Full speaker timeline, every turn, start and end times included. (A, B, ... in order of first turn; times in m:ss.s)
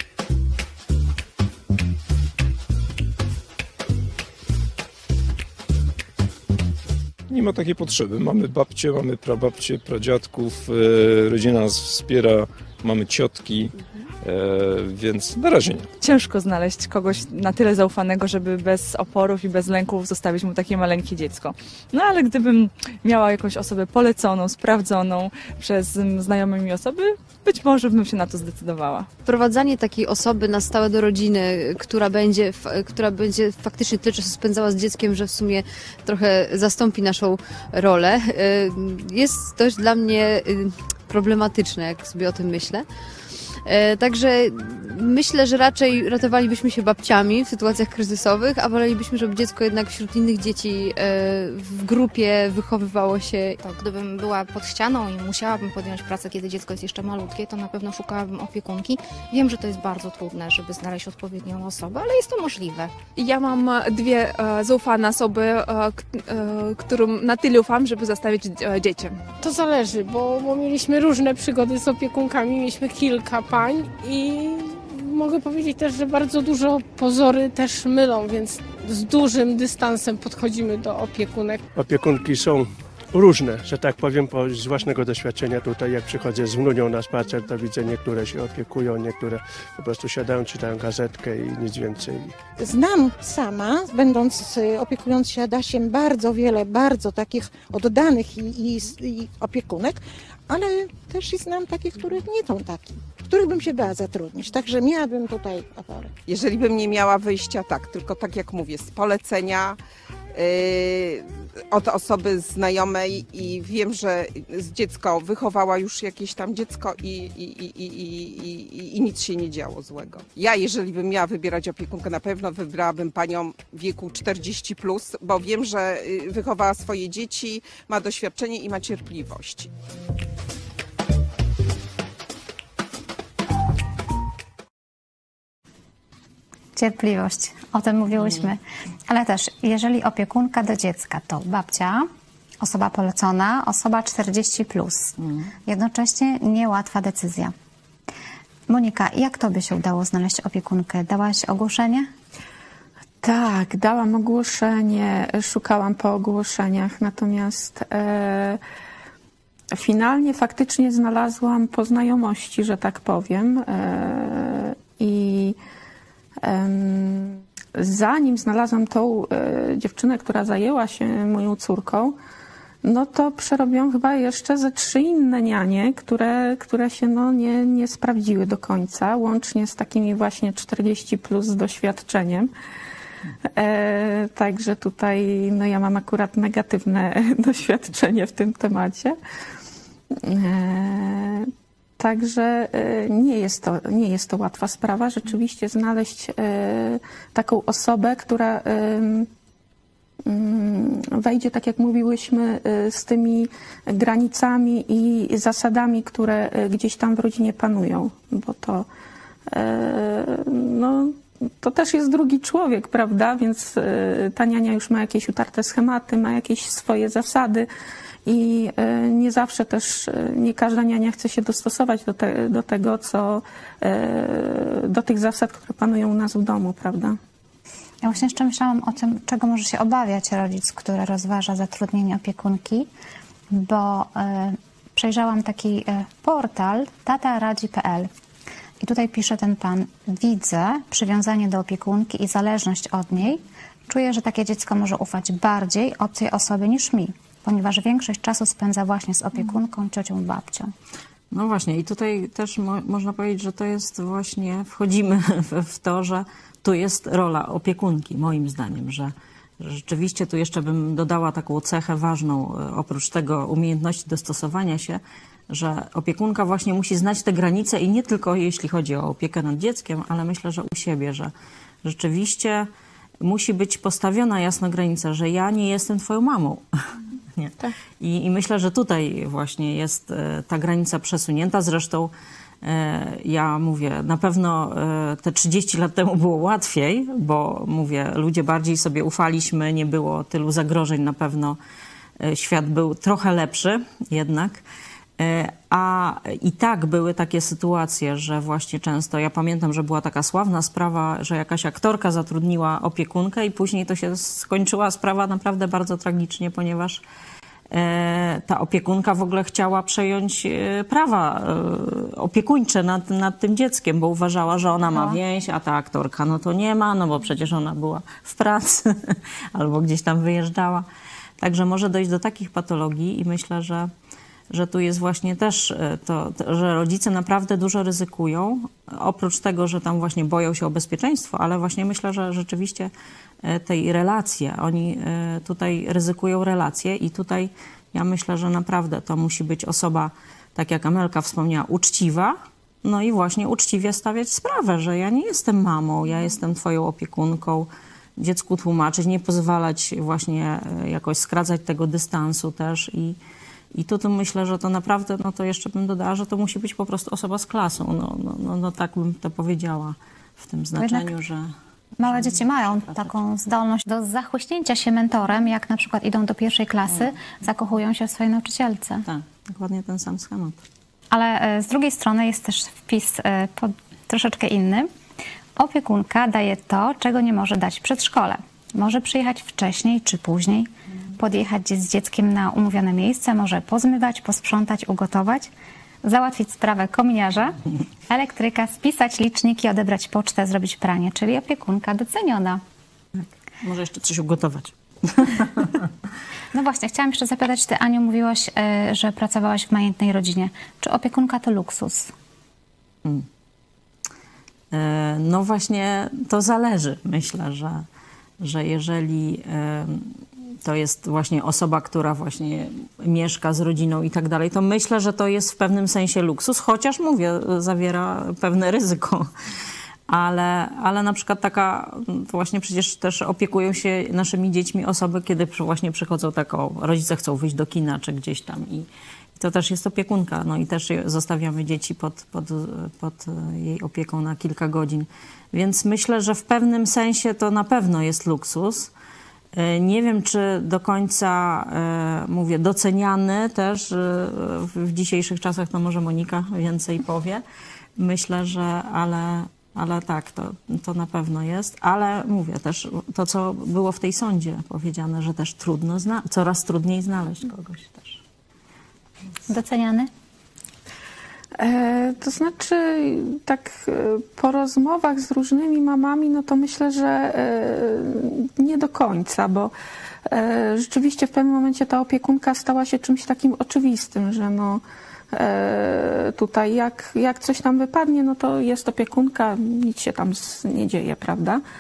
0:07.3-0:15.9 A
0:16.0-0:29.1 B
0:29.2-0:42.8 C
0:43.6-0:53.6 C
0:53.6-1:03.0 D
1:03.1-1:09.3 E
1:09.4-1:21.6 F
1:21.8-1:32.4 G
1:32.6-1:46.2 H
1:46.3-1:49.8 I
1:50.3-2:09.7 I
2:16.8-2:22.1 J
2:22.6-2:25.2 J
2:25.2-2:25.5 K
2:25.7-2:27.5 J
2:28.7-2:32.1 J
2:33.2-2:38.6 L
2:39.7-2:45.6 L
2:46.4-2:52.2 L
2:52.8-3:02.5 L
3:03.5-3:09.2 L
3:10.1-3:19.3 L
3:20.2-3:28.9 L
3:29.5-3:37.7 L
3:38.3-3:47.2 L
3:48.0-3:52.9 J
3:53.5-3:58.1 J
3:58.8-4:10.7 J
4:11.3-4:31.3 K
4:31.8-4:32.7 K
4:33.2-4:36.6 K
4:37.4-4:42.1 K
4:42.6-4:51.6 K
4:52.2-4:54.6 K
4:55.2-5:07.0 K
5:07.7-5:20.9 K
5:14.9-5:15.2 J
5:21.4-5:23.9 K
5:24.5-5:32.9 K
5:33.4-5:53.2 K
5:53.7-6:03.1 K
6:00.8-6:01.1 J
6:02.0-6:09.1 J
6:09.1-6:10.6 K
6:11.1-6:14.9 J
6:15.6-6:25.5 J
6:26.0-6:32.6 J
6:33.2-6:35.8 K
6:36.5-6:42.1 J
6:44.7-6:47.9 K
6:48.4-6:59.3 K
7:00.1-7:18.9 K
7:19.5-7:27.4 K
7:28.0-7:38.2 K
7:39.5-7:40.1 J
7:41.6-7:49.7 L
7:50.3-7:54.8 L
7:55.3-8:01.6 L